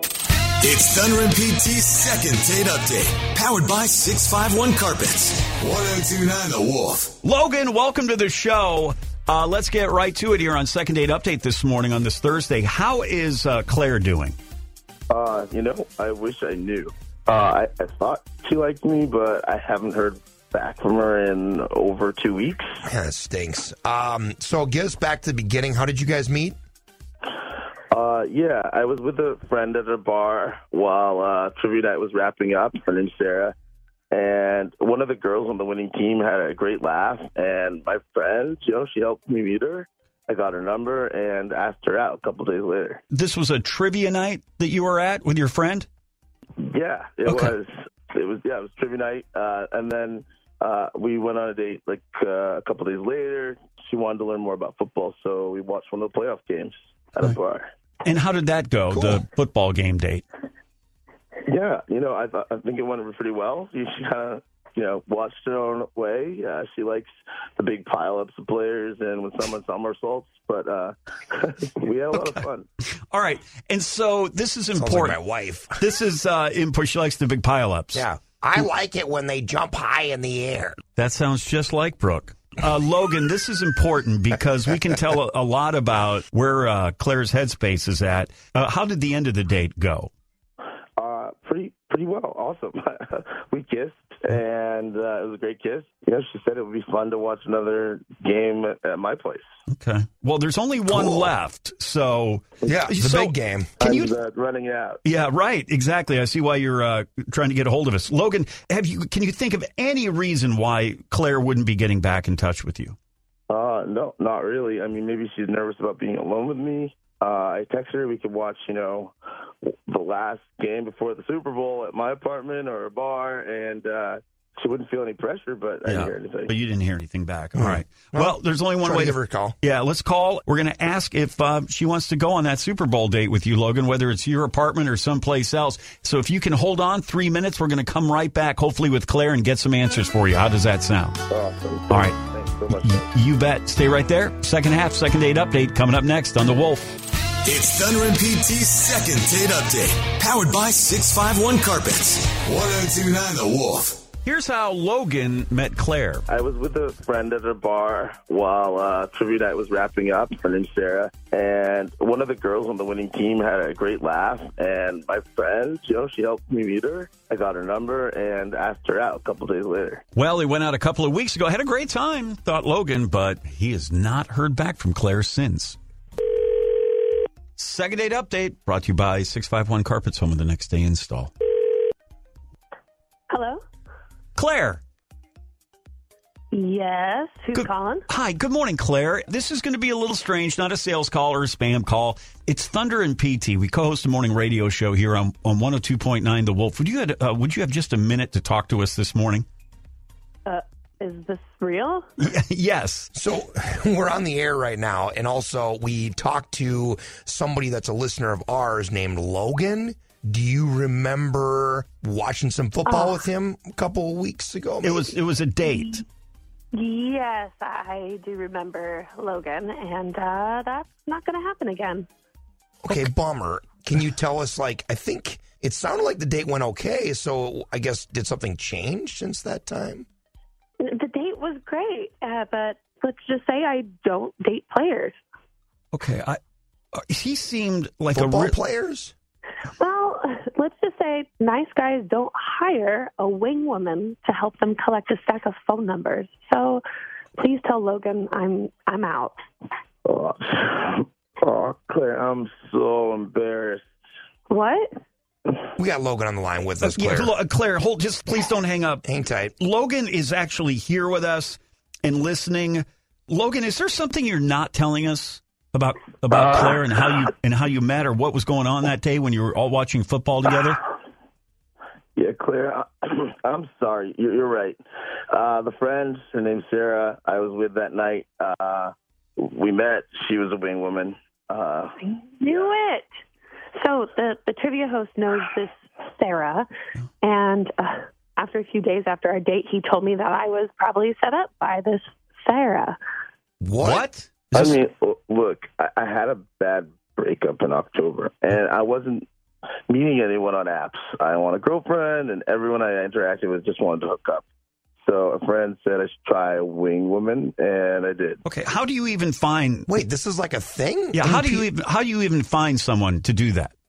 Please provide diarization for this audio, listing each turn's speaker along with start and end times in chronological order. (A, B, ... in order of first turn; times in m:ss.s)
0:00.6-0:07.1 A
0:07.2-0:14.4 B
0:15.1-0:22.8 C
0:22.8-0:26.6 D
0:27.9-0:33.5 C
0:34.1-0:43.0 C
0:43.1-0:45.9 B
0:46.6-0:57.7 C
0:47.2-0:47.5 B
0:58.0-1:00.2 B
0:58.9-0:59.2 D
1:01.4-1:12.7 C
1:13.1-1:15.2 B
1:14.8-1:15.8 D
1:15.8-1:18.7 B
1:17.9-1:20.8 D
1:21.0-1:30.1 B
1:31.0-1:39.4 C
1:39.7-1:44.1 B
1:40.9-1:41.3 D
1:42.6-1:43.8 D
1:43.8-1:45.0 C
1:45.0-1:53.0 B
1:53.5-2:06.5 C
2:05.8-2:21.2 B
2:07.5-2:09.6 D
2:21.3-2:23.0 C
2:21.9-2:22.2 B
2:22.7-2:26.9 B
2:27.4-2:34.0 A
2:34.2-2:36.2 B
2:36.3-2:50.0 C
2:50.1-2:55.8 B
2:57.6-3:01.3 B
3:03.3-3:03.6 E
3:04.4-3:04.8 B
3:06.5-3:08.0 E
3:07.5-3:19.4 B
3:20.4-3:22.0 E
3:22.2-3:23.1 B
3:23.1-3:35.1 D
3:32.8-3:33.2 E
3:34.8-3:36.0 B
3:36.7-3:42.1 E
3:42.8-3:50.1 D
3:50.8-3:55.2 E
3:55.9-3:56.4 B
3:56.9-3:58.6 B
3:58.1-3:59.1 D
3:59.8-4:06.8 E
4:07.4-4:09.4 E
4:10.0-4:13.8 C
4:14.5-4:14.9 E
4:15.8-4:17.3 D
4:16.8-4:19.0 B
4:19.0-4:19.5 D
4:19.6-4:30.8 B
4:32.2-4:34.8 C
4:35.3-4:42.7 C
4:42.4-4:43.1 E
4:43.8-4:46.7 E
4:47.2-4:53.0 E
4:53.6-4:54.0 D
4:53.8-4:54.8 B
4:54.5-4:59.3 C
4:59.9-5:04.4 C
5:05.0-5:08.4 C
5:08.4-5:09.9 B
5:09.9-5:11.7 D
5:11.1-5:13.7 B